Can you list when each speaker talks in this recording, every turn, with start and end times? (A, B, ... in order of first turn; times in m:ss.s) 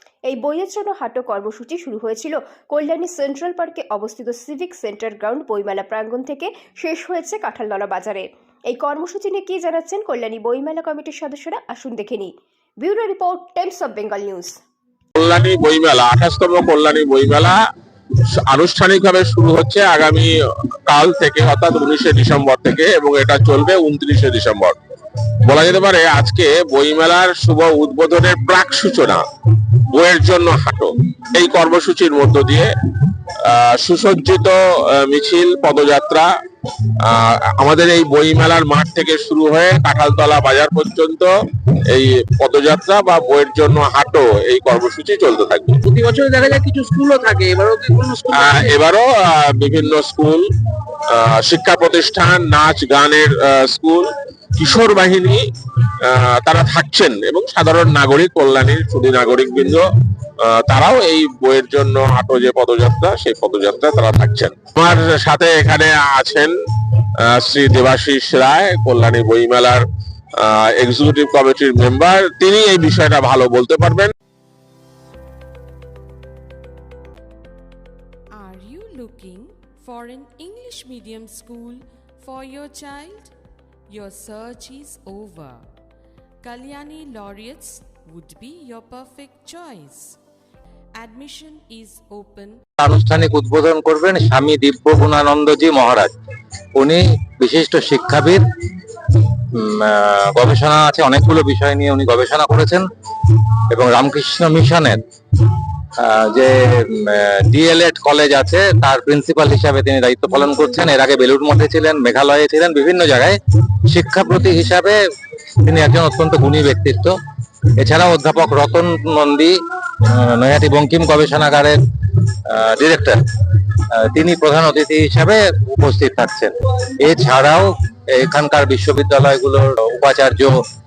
0:00.3-0:14.6 A
0:15.2-0:17.6 B
0:18.3-0:20.3 B
0:20.9-0:24.8 B
0:25.4-0:36.3 B
0:37.0-0:45.8 B
0:45.8-0:48.8 C
0:48.3-0:59.8 B
1:00.4-1:06.5 B
1:07.3-1:09.8 B
1:10.4-1:14.1 B
1:18.4-1:23.3 D
1:23.9-1:25.7 D
1:26.4-1:30.2 D
1:31.0-1:32.6 D
1:32.8-1:36.1 E
1:36.8-1:57.2 E
1:57.8-2:10.6 E